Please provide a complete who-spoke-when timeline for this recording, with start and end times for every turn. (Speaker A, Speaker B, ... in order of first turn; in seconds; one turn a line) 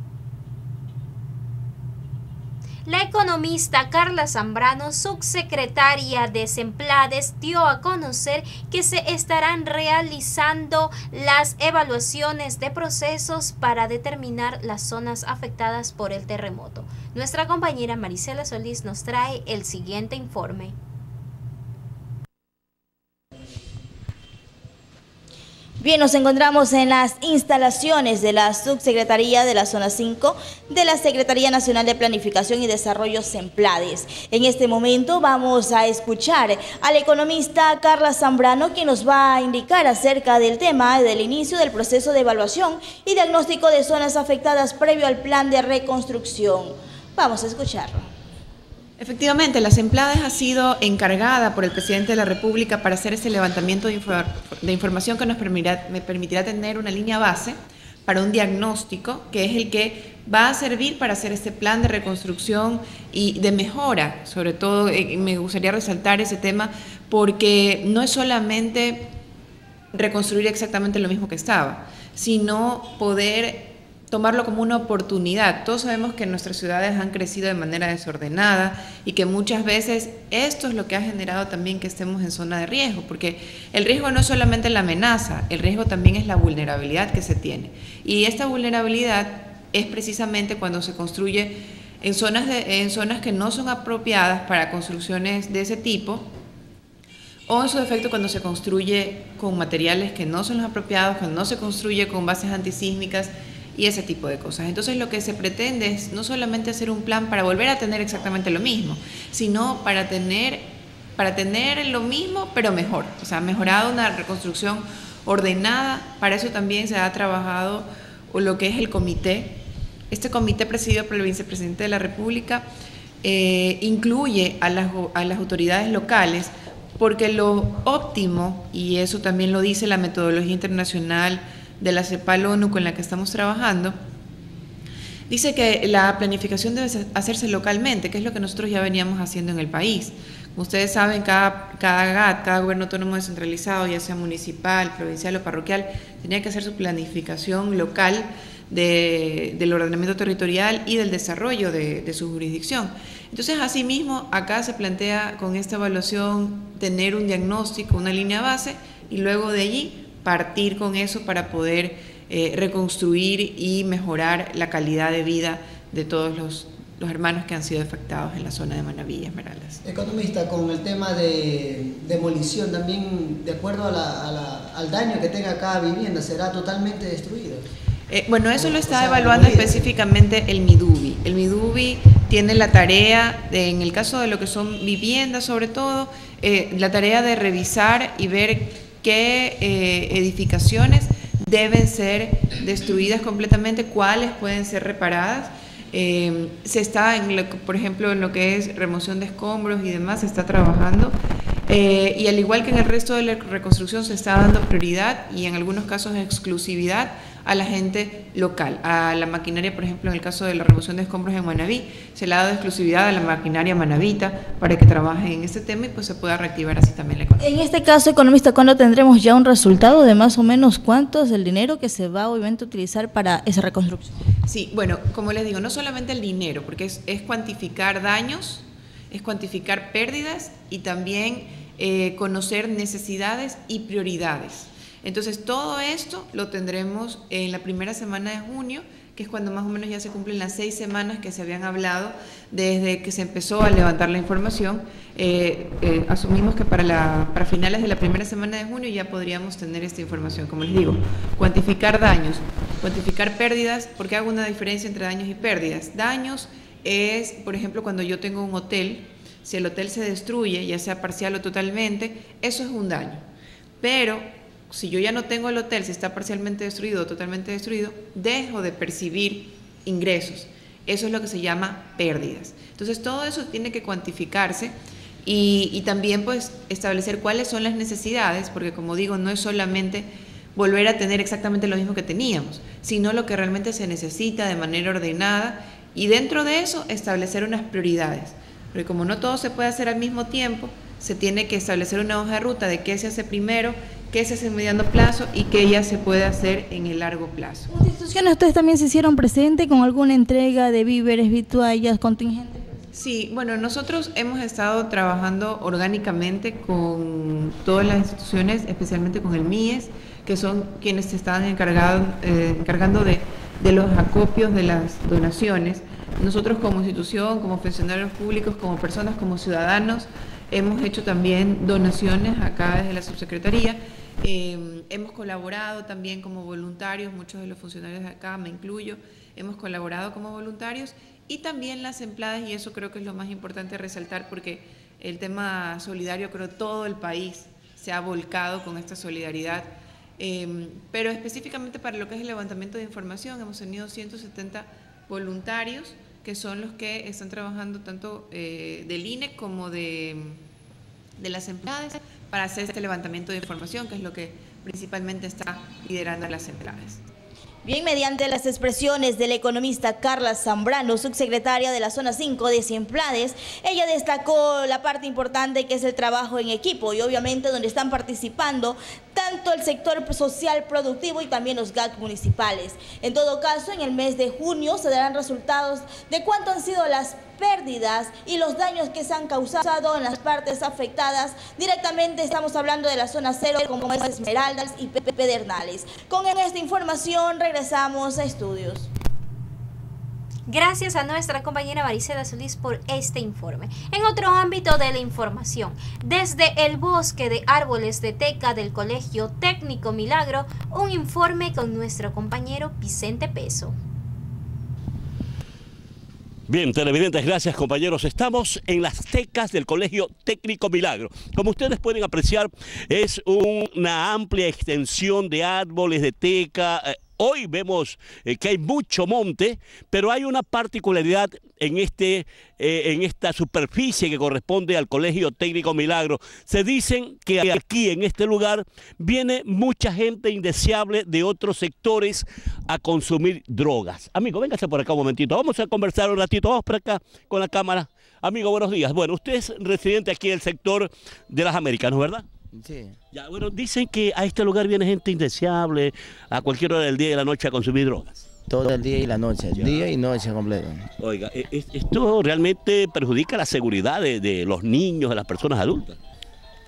Speaker A: 2.9-20.7
Speaker B: 25.8-48.1
Speaker C: 49.0-69.1
Speaker C: 69.9-96.3
Speaker C: 97.5-122.7
Speaker C: 123.2-134.0
Speaker C: 135.3-169.8
Speaker D: 169.8-177.6
Speaker C: 178.1-201.2
Speaker D: 178.6-179.9
Speaker C: 201.7-217.5
Speaker B: 217.4-224.1
Speaker C: 224.4-263.2
Speaker C: 263.8-297.7
Speaker B: 297.7-302.6
Speaker C: 302.9-350.4
Speaker C: 351.2-357.0
Speaker B: 357.6-388.9
Speaker A: 390.5-403.8
Speaker E: 406.5-442.2
Speaker F: 442.5-443.0
Speaker E: 443.1-448.2
Speaker F: 448.5-450.9
Speaker E: 449.5-449.9
Speaker E: 451.0-456.0